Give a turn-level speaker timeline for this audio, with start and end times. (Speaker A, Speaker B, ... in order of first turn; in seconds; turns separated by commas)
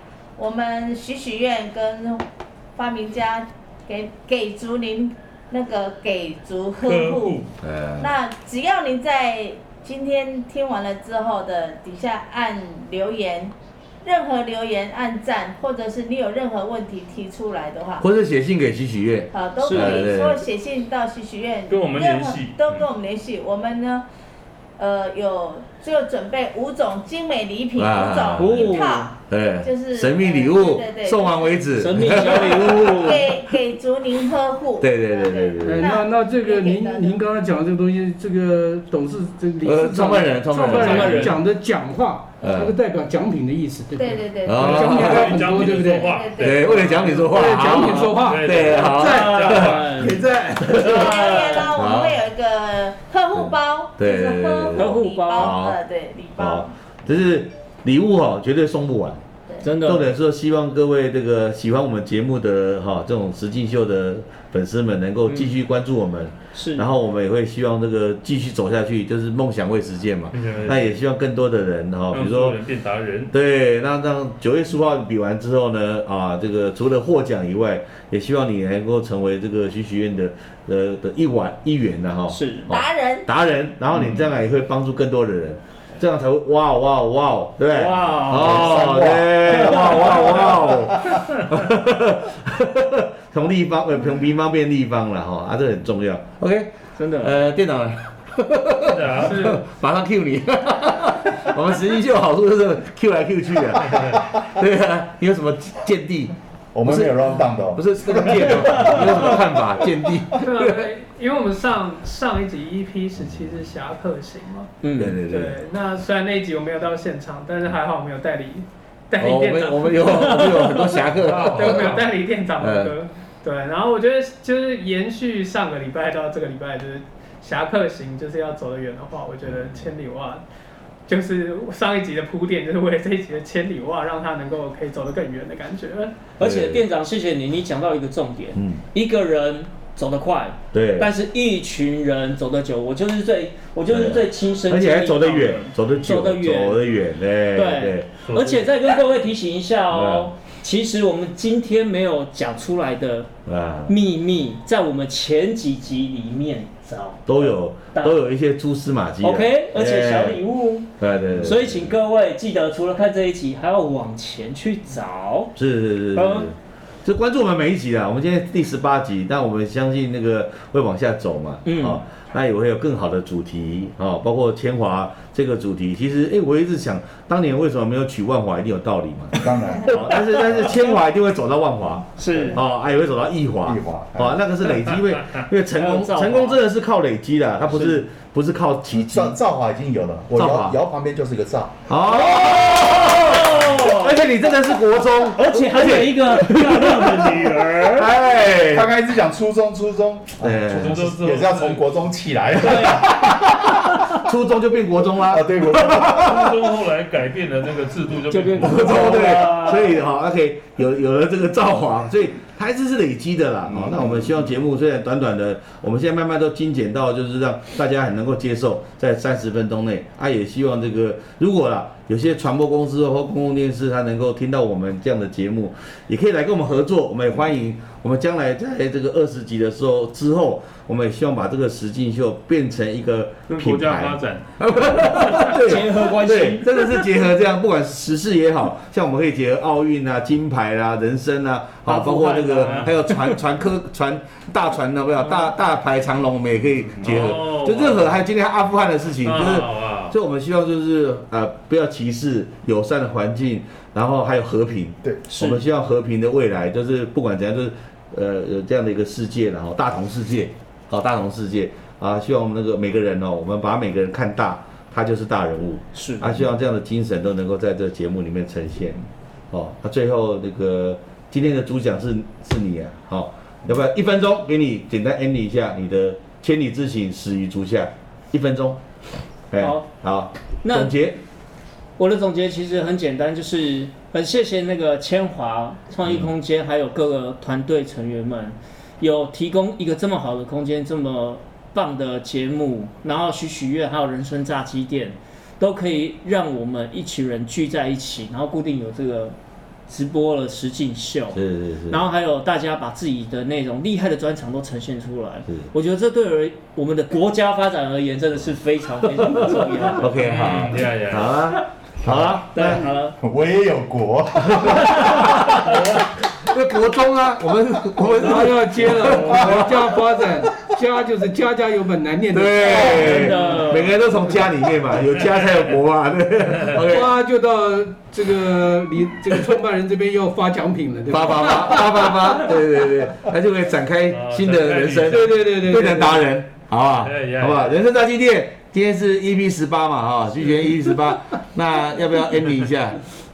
Speaker A: 0.4-7.5, Speaker B: 6.8-7.5, Speaker C: 7.6-8.2, Speaker A: 8.0-18.1, Speaker C: 18.0-20.4, Speaker A: 19.3-24.1, Speaker D: 19.6-20.1, Speaker B: 21.7-22.9, Speaker A: 24.8-37.2, Speaker C: 27.8-28.8, Speaker D: 28.4-29.1, Speaker C: 29.3-33.4, Speaker D: 31.8-33.2, Speaker C: 34.8-36.0, Speaker E: 35.6-46.2, Speaker C: 39.6-41.4, Speaker D: 40.6-41.4, Speaker B: 40.9-41.3, Speaker C: 42.4-42.8, Speaker A: 44.0-47.2, Speaker C: 44.4-45.4, Speaker B: 44.7-50.2, Speaker C: 46.4-51.2, Speaker E: 47.2-49.7, Speaker D: 49.0-51.7, Speaker A: 50.7-56.7, Speaker C: 51.7-52.2, Speaker C: 53.3-55.8, Speaker D: 54.8-55.6, Speaker C: 56.4-59.2, Speaker D: 59.6-60.1, Speaker C: 59.8-72.6, Speaker D: 65.3-65.5, Speaker D: 66.5-66.9, Speaker B: 70.3-71.0, Speaker B: 72.1-73.3, Speaker C: 73.3-110.9, Speaker D: 82.3-82.7, Speaker A: 82.7-83.3, Speaker D: 87.7-90.8, Speaker D: 97.0-97.3, Speaker B: 98.8-99.5, Speaker F: 99.2-99.6, Speaker G: 106.7-109.4, Speaker F: 110.4-114.7, Speaker D: 114.8-115.2, Speaker C: 115.0-115.6, Speaker F: 115.2-120.8, Speaker C: 119.2-122.0, Speaker D: 120.1-120.7, Speaker B: 121.2-122.1, Speaker F: 121.5-130.4, Speaker C: 122.6-123.0, Speaker C: 129.4-129.9, Speaker F: 131.1-136.3, Speaker D: 136.4-146.9, Speaker C: 136.4-136.8, Speaker C: 138.6-138.8, Speaker C: 140.7-141.1, Speaker C: 143.9-148.1, Speaker D: 147.5-153.3, Speaker B: 148.2-148.7, Speaker C: 149.9-150.3, Speaker C: 153.5-153.9, Speaker D: 153.9-158.2, Speaker C: 157.3-160.4, Speaker D: 159.2-165.5, Speaker C: 161.0-162.0, Speaker C: 165.6-189.4, Speaker D: 166.1-166.5, Speaker D: 171.7-172.0, Speaker G: 179.3-180.7, Speaker D: 179.9-180.7, Speaker D: 182.2-182.6, Speaker G: 183.7-184.4, Speaker D: 185.7-186.6, Speaker D: 187.7-188.0, Speaker G: 188.9-191.8, Speaker C: 190.3-190.8, Speaker C: 191.9-198.9, Speaker D: 192.1-194.2, Speaker D: 195.3-198.1, Speaker G: 198.4-204.1, Speaker C: 200.4-201.1, Speaker B: 200.7-202.1, Speaker D: 202.6-203.1, Speaker C: 202.8-203.3, Speaker C: 204.1-206.6, Speaker G: 205.2-206.5, Speaker B: 206.1-209.3, Speaker D: 208.3-210.0, Speaker C: 208.6-278.8, Speaker G: 213.7-214.4, Speaker B: 233.5-235.6, Speaker D: 235.3-237.1, Speaker D: 241.9-243.2, Speaker B: 242.6-243.0, Speaker B: 247.0-248.1, Speaker B: 249.2-250.2, Speaker D: 255.3-255.6, Speaker D: 265.9-266.4, Speaker C: 279.5-281.2, Speaker D: 279.6-279.9, Speaker D: 280.6-281.0, Speaker D: 282.0-299.4, Speaker D: 299.9-310.4, Speaker C: 301.3-302.0, Speaker C: 309.1-312.9, Speaker B: 310.2-311.4, Speaker G: 312.0-315.8, Speaker D: 312.5-313.2, Speaker C: 314.6-315.8, Speaker C: 316.4-320.1, Speaker E: 318.0-323.6, Speaker C: 322.3-327.1, Speaker D: 322.6-324.0, Speaker B: 325.2-325.8, Speaker B: 326.5-326.8, Speaker E: 326.8-332.2, Speaker C: 331.1-343.1, Speaker B: 334.1-335.4, Speaker E: 335.1-336.3, Speaker B: 337.0-337.8